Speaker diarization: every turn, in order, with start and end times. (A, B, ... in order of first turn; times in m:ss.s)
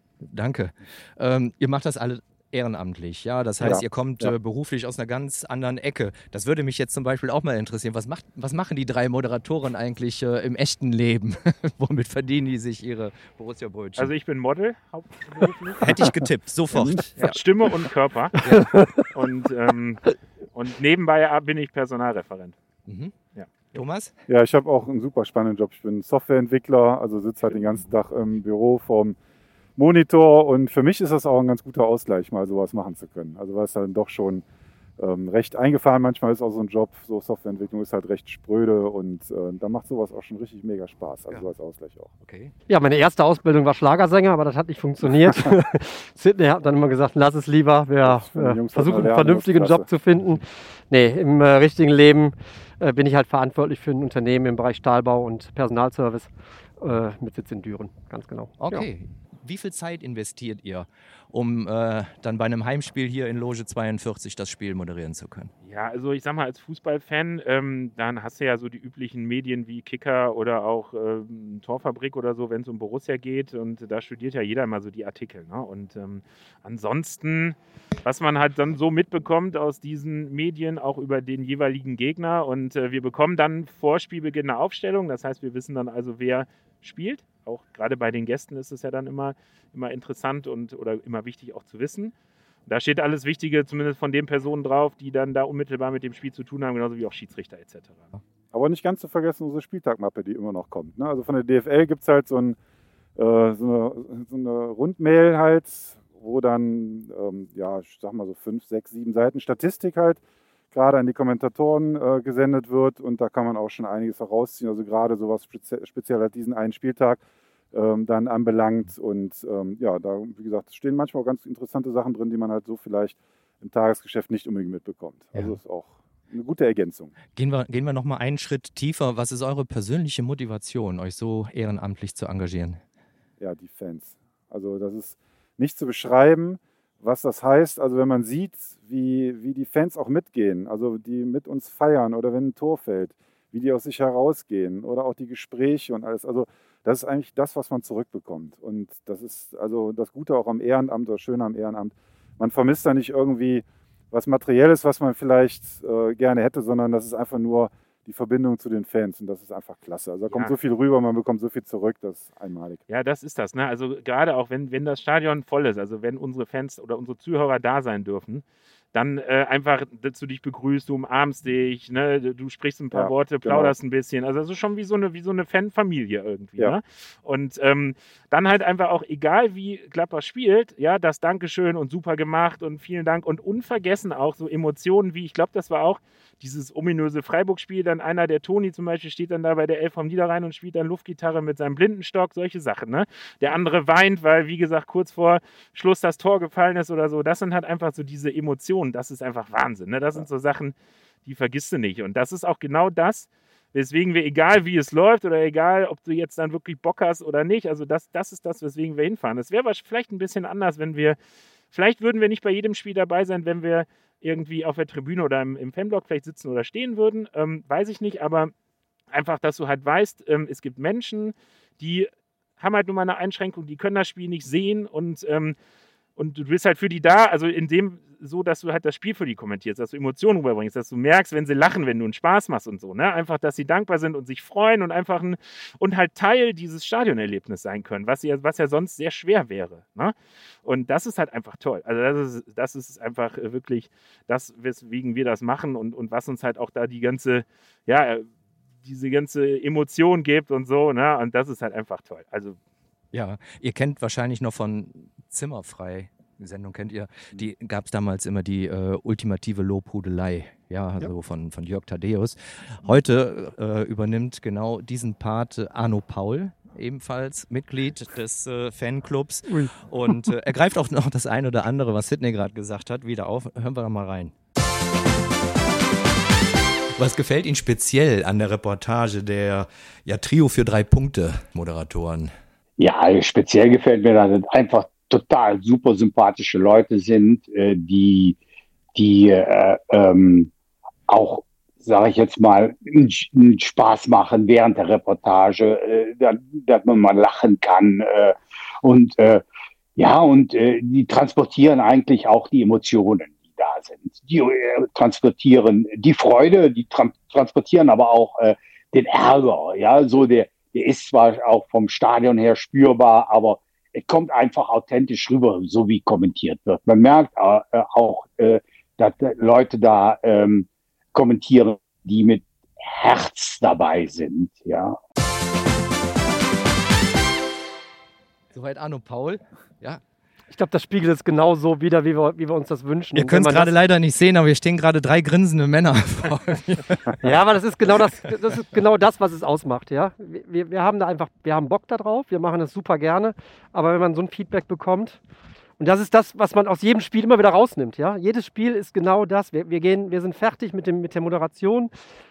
0:00.2-0:14.1 A
0:03.6-0:04.3 B
0:14.0-0:16.0 C
0:15.8-0:17.4 A
0:16.7-0:17.0 B
0:17.2-0:18.4 C
0:18.4-0:18.7 A
0:18.4-0:19.1 D
0:19.1-0:22.6 C
0:22.8-0:23.1 A
0:23.3-0:23.6 C
0:23.7-0:24.1 A
0:24.3-0:29.2 B
0:29.8-0:34.4 B
0:35.0-0:42.1 B
0:42.2-0:42.5 A
0:42.7-0:58.9 D
0:48.0-0:49.9 B
0:58.6-1:05.5 A
1:05.6-1:32.1 C
1:32.7-1:38.1 C
1:38.5-1:42.6 B
1:43.2-1:50.2 B
1:50.7-1:57.2 B
1:57.7-2:07.1 B
2:07.3-2:12.8 A
2:13.4-2:42.8 B
2:42.9-3:20.7 C
2:52.9-2:53.7 B
3:21.2-3:31.2 C
3:31.7-3:38.5 C
3:39.1-3:45.6 C
3:46.2-4:08.3 C
4:08.8-4:12.6 C
4:13.1-4:34.3 A
4:37.0-4:42.3 A
4:42.8-4:48.4 E
4:48.9-4:50.5 E
4:51.1-4:59.4 E
5:00.0-5:25.0 E
5:28.5-5:30.0 A
5:30.5-5:33.7 D
5:33.1-5:37.2 A
5:37.2-5:45.2 D
5:45.8-5:51.9 D